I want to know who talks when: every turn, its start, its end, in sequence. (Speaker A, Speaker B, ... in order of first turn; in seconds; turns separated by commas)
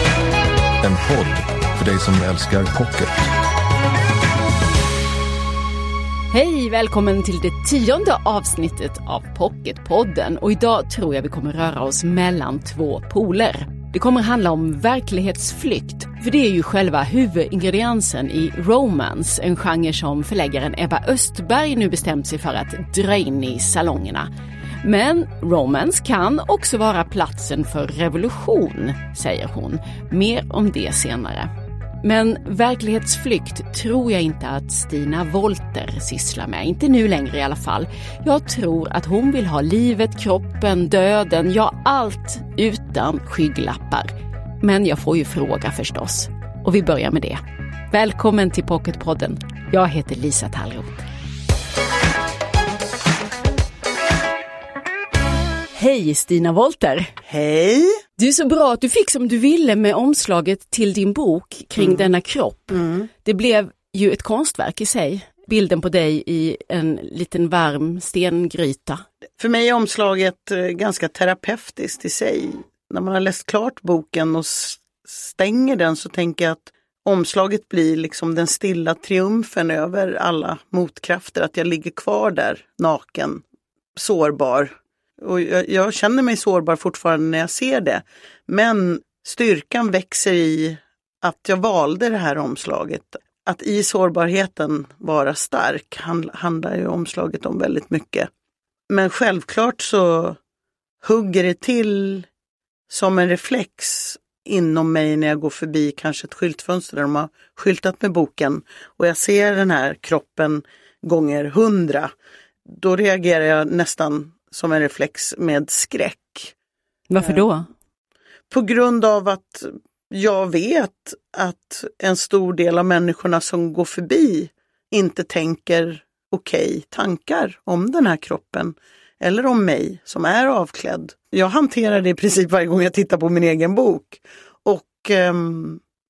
Speaker A: 0.8-3.3, Speaker B: 6.3-24.3, Speaker B: 24.8-31.5, Speaker B: 32.0-51.0, Speaker B: 55.7-57.1, Speaker C: 57.2-58.0, Speaker B: 58.2-69.0, Speaker C: 61.8-62.1, Speaker C: 62.7-63.1, Speaker C: 69.4-83.4, Speaker C: 84.0-98.3, Speaker C: 98.9-100.4, Speaker C: 101.0-102.3, Speaker C: 102.9-112.1, Speaker C: 112.7-116.5, Speaker B: 117.1-117.7, Speaker C: 118.5-135.8